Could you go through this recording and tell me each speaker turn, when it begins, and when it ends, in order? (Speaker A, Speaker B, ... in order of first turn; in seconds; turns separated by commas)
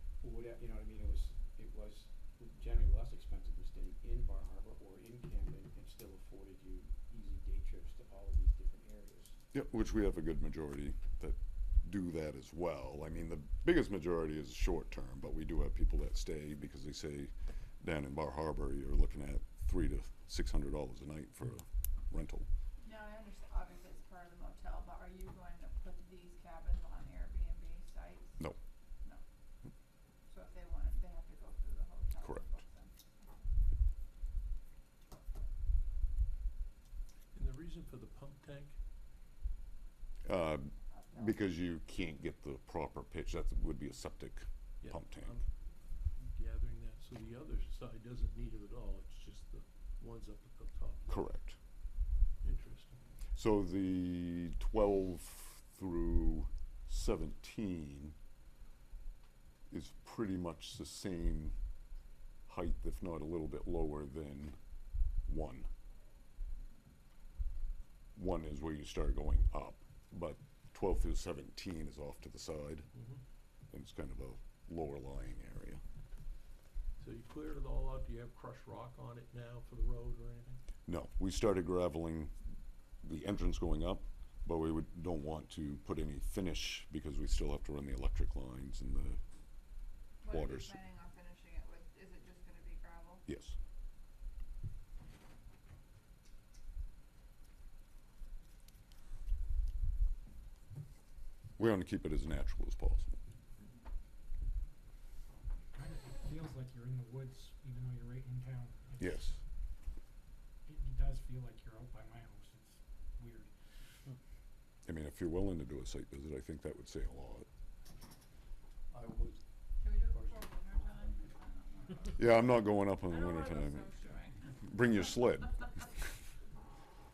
Speaker A: 0.2-9.4, Speaker B: 9.5-22.5, Speaker C: 22.8-28.4, Speaker C: 30.2-33.5, Speaker B: 32.2-32.5, Speaker D: 37.3-38.8, Speaker B: 40.2-45.4, Speaker C: 40.9-41.4, Speaker D: 44.8-45.5, Speaker D: 46.0-51.1, Speaker B: 51.1-51.6, Speaker D: 52.4-53.0, Speaker B: 53.4-58.1, Speaker B: 59.7-61.5, Speaker B: 62.5-64.6, Speaker B: 65.2-65.7, Speaker B: 68.2-72.9, Speaker D: 72.9-73.2, Speaker B: 73.7-75.8, Speaker D: 77.0-80.6, Speaker B: 80.9-82.4, Speaker B: 83.0-89.2, Speaker C: 90.2-93.2, Speaker B: 90.3-90.8, Speaker B: 93.3-93.6, Speaker B: 101.6-103.2, Speaker E: 105.7-109.4, Speaker B: 109.0-109.4, Speaker E: 110.7-113.5, Speaker B: 114.8-117.5, Speaker D: 118.9-119.4, Speaker C: 119.8-122.4, Speaker B: 122.2-124.0, Speaker C: 123.0-124.6, Speaker B: 124.6-126.0